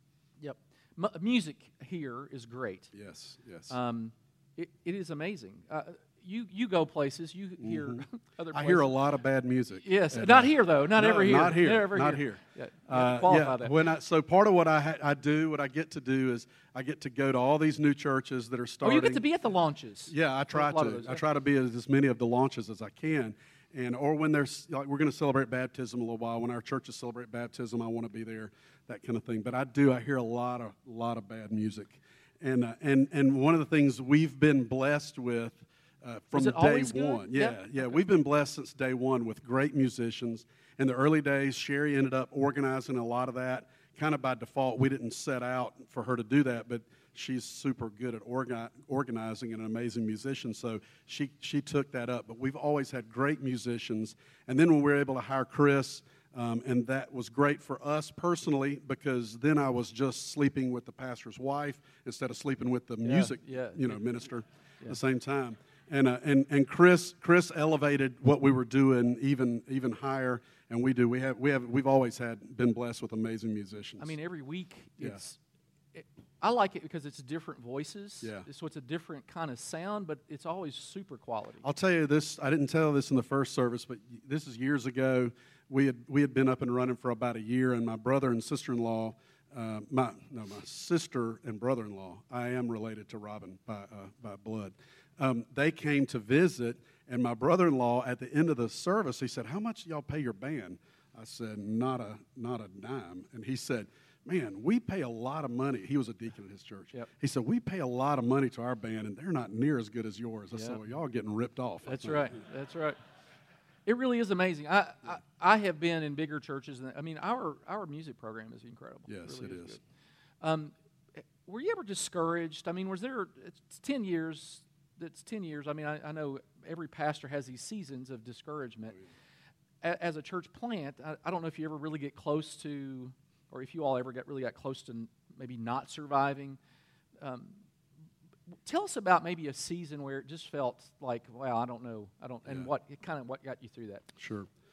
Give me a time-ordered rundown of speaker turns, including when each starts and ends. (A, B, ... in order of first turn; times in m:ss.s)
0:00.4-0:02.9 A
0:02.9-0:03.7 B
0:03.7-0:08.9 A
0:07.6-0:19.2 B
0:09.8-0:13.7 A
0:18.8-0:21.2 A
0:20.1-1:14.1 B
0:36.3-0:37.9 A
1:03.0-1:04.0 A
1:14.0-1:15.4 A
1:15.9-1:21.6 A
1:18.2-1:18.5 B
1:21.6-1:52.4 B
1:51.8-1:53.0 A
1:53.8-1:59.8 A
1:59.1-1:59.8 B
2:00.4-2:09.0 A
2:09.8-2:16.6 A
2:17.2-2:17.6 A
2:18.6-2:24.1 A
2:24.2-2:24.5 B